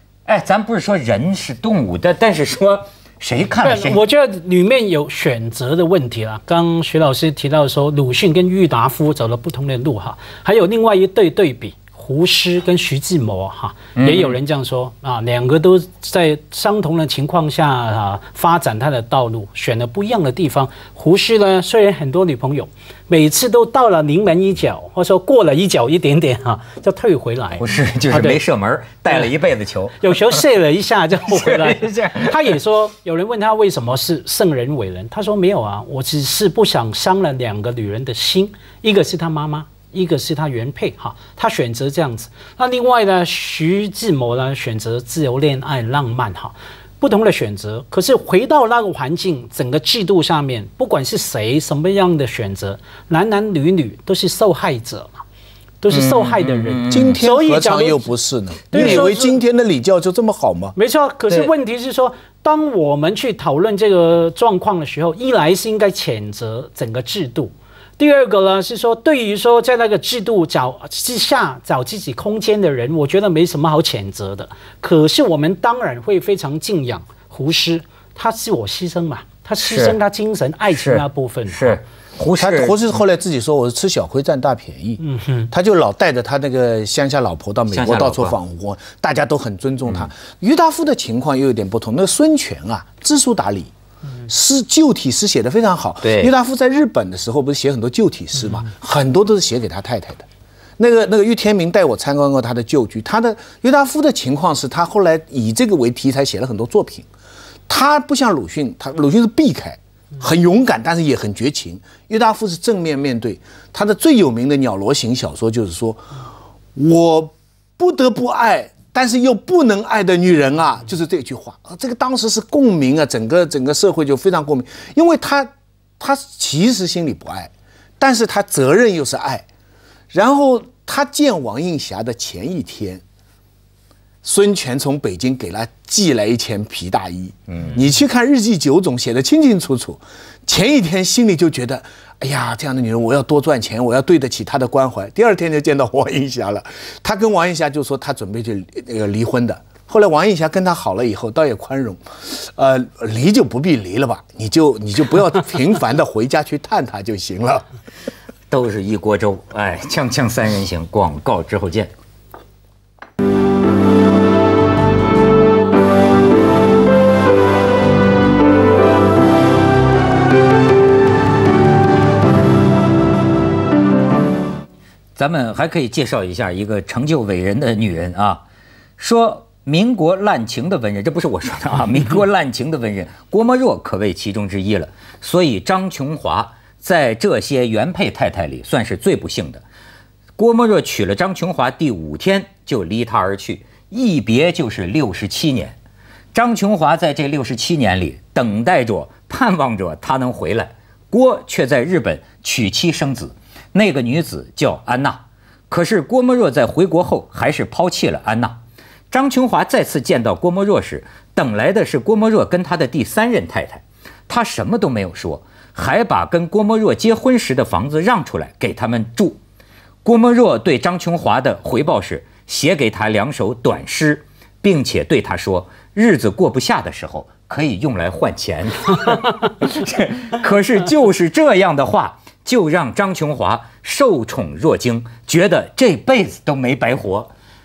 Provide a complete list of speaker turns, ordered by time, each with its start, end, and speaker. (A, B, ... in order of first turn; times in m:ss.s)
0:00.2-0:04.0 A
0:03.6-0:28.4 B
0:14.0-0:14.4 A
0:27.6-0:30.1 A
0:30.0-0:55.2 B
0:31.3-0:32.5 A
0:55.8-0:58.0 B
0:55.9-0:57.2 A
0:56.9-1:00.8 C
0:58.7-0:59.4 B
0:58.7-0:59.0 A
1:00.8-1:21.8 B
1:19.6-1:20.0 A
1:20.7-1:22.8 A
1:22.4-1:33.7 C
1:25.0-1:25.5 B
1:27.7-1:28.4 A
1:34.2-1:40.2 C
1:36.0-1:36.3 A
1:40.8-1:47.1 C
1:47.7-1:56.1 C
1:56.7-2:09.4 C
2:10.1-2:13.0 C
2:14.2-2:37.7 C
2:17.5-2:17.8 A
2:38.5-2:41.9 A
2:55.2-2:58.4 A
2:59.0-3:09.6 A
3:10.4-3:15.7 A
3:16.3-3:28.6 A
3:29.1-3:39.4 A
3:40.0-3:57.3 A